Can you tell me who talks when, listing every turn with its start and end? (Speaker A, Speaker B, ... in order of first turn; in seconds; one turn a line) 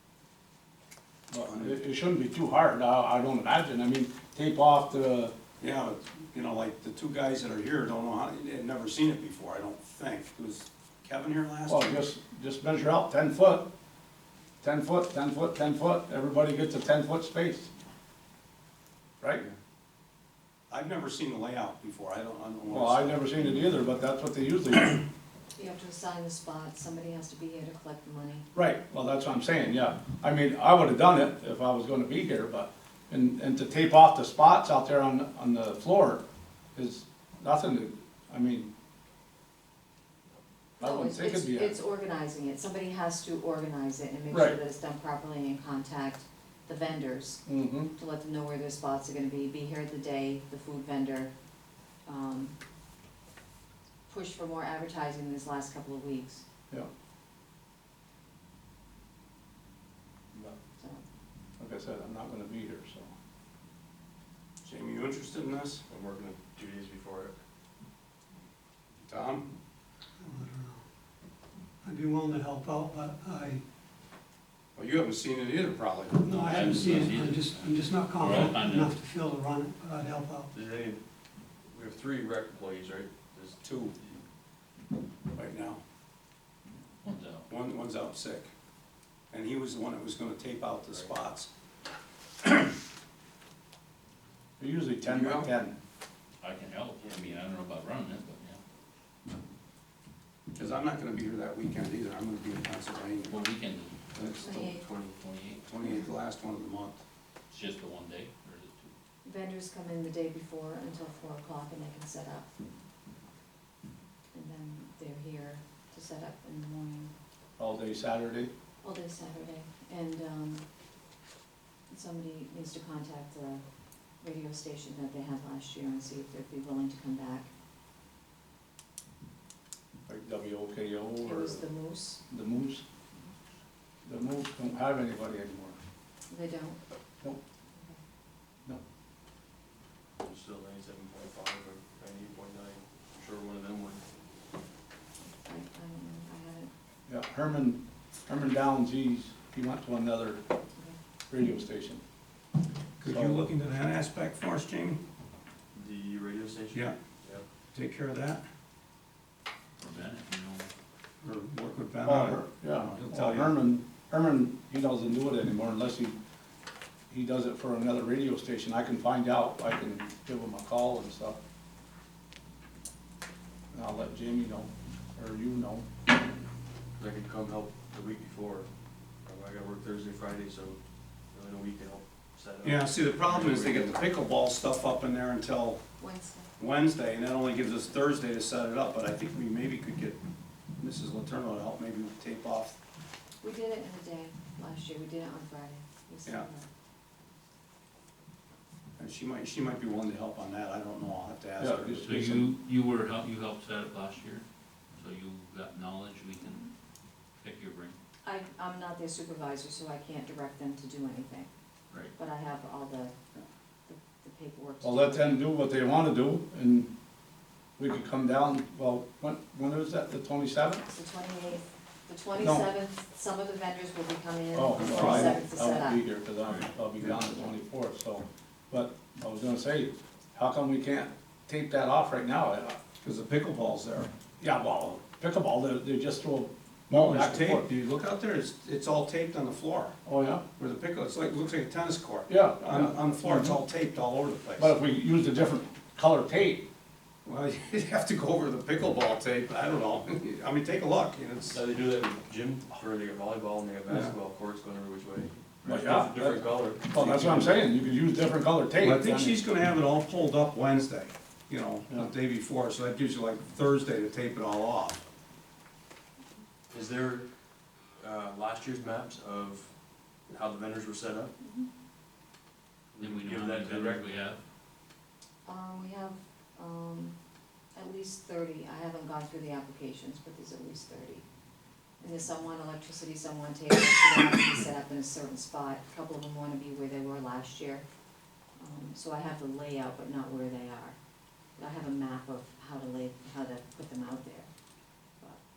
Speaker A: 1.3-5.3
Speaker B: 1.4-1.7
Speaker B: 5.6-12.1
Speaker A: 11.7-13.7
Speaker A: 14.6-17.7
Speaker B: 20.7-23.3
Speaker A: 22.7-25.0
Speaker C: 25.6-28.4
Speaker A: 28.5-36.2
Speaker A: 36.7-38.7
Speaker C: 40.8-51.3
Speaker A: 40.8-41.8
Speaker A: 44.3-44.6
Speaker A: 47.5-47.9
Speaker C: 52.0-52.5
Speaker C: 54.1-56.4
Speaker A: 61.6-63.1
Speaker B: 64.6-65.8
Speaker D: 65.9-67.4
Speaker B: 69.1-69.5
Speaker E: 70.2-70.8
Speaker E: 71.8-73.6
Speaker B: 74.8-76.4
Speaker E: 76.2-80.5
Speaker F: 76.3-78.9
Speaker D: 80.5-81.0
Speaker D: 81.7-83.6
Speaker B: 83.6-83.9
Speaker B: 85.3-85.8
Speaker F: 87.0-87.5
Speaker B: 87.5-88.5
Speaker B: 89.3-91.5
Speaker A: 94.6-95.8
Speaker B: 95.1-95.5
Speaker F: 96.4-98.6
Speaker B: 100.5-103.4
Speaker F: 103.3-103.9
Speaker B: 104.1-104.5
Speaker C: 104.4-104.8
Speaker D: 104.6-105.2
Speaker F: 105.2-105.6
Speaker B: 105.7-107.0
Speaker F: 107.5-108.9
Speaker C: 109.2-112.5
Speaker C: 114.3-117.1
Speaker A: 117.6-118.5
Speaker C: 118.8-120.6
Speaker C: 121.9-123.6
Speaker C: 124.2-127.5
Speaker A: 130.1-131.7
Speaker C: 131.2-132.2
Speaker A: 132.3-132.8
Speaker A: 134.0-135.8
Speaker C: 136.3-136.8
Speaker C: 137.7-138.0
Speaker D: 140.2-144.0
Speaker C: 145.3-146.7
Speaker A: 147.1-150.4
Speaker A: 151.3-152.0
Speaker B: 153.0-155.0
Speaker A: 153.0-153.4
Speaker D: 155.7-157.4
Speaker B: 157.7-158.4
Speaker F: 159.8-160.7
Speaker B: 161.2-163.5
Speaker A: 162.0-166.2
Speaker A: 167.1-171.4
Speaker A: 173.7-175.8
Speaker D: 177.0-178.7
Speaker D: 179.2-180.8
Speaker D: 181.3-184.0
Speaker B: 182.6-185.8
Speaker C: 186.0-186.5
Speaker B: 186.6-190.2
Speaker B: 190.8-192.8
Speaker C: 193.4-196.7
Speaker B: 199.0-202.0
Speaker A: 201.6-202.5
Speaker F: 202.0-204.4
Speaker F: 204.9-206.6
Speaker F: 207.4-208.0
Speaker C: 208.2-211.5
Speaker C: 212.1-213.1
Speaker C: 213.9-215.5
Speaker A: 214.8-216.9
Speaker A: 217.8-220.8
Speaker C: 220.9-226.0
Speaker A: 222.4-222.7
Speaker A: 224.5-232.8
Speaker B: 224.8-225.4
Speaker B: 233.0-234.1
Speaker A: 234.4-237.7
Speaker B: 236.9-239.9
Speaker A: 240.1-240.4
Speaker B: 240.6-244.7
Speaker A: 242.3-243.6
Speaker A: 244.6-246.6
Speaker B: 247.2-251.6
Speaker D: 251.5-257.3
Speaker A: 255.6-259.4
Speaker B: 258.8-265.0
Speaker D: 266.7-267.3
Speaker D: 268.0-269.7
Speaker D: 270.3-271.3
Speaker C: 271.4-271.7
Speaker D: 272.9-274.1
Speaker F: 273.0-274.4
Speaker C: 275.4-277.1
Speaker C: 277.7-281.2
Speaker C: 282.0-287.9
Speaker C: 288.6-291.0
Speaker C: 291.6-294.5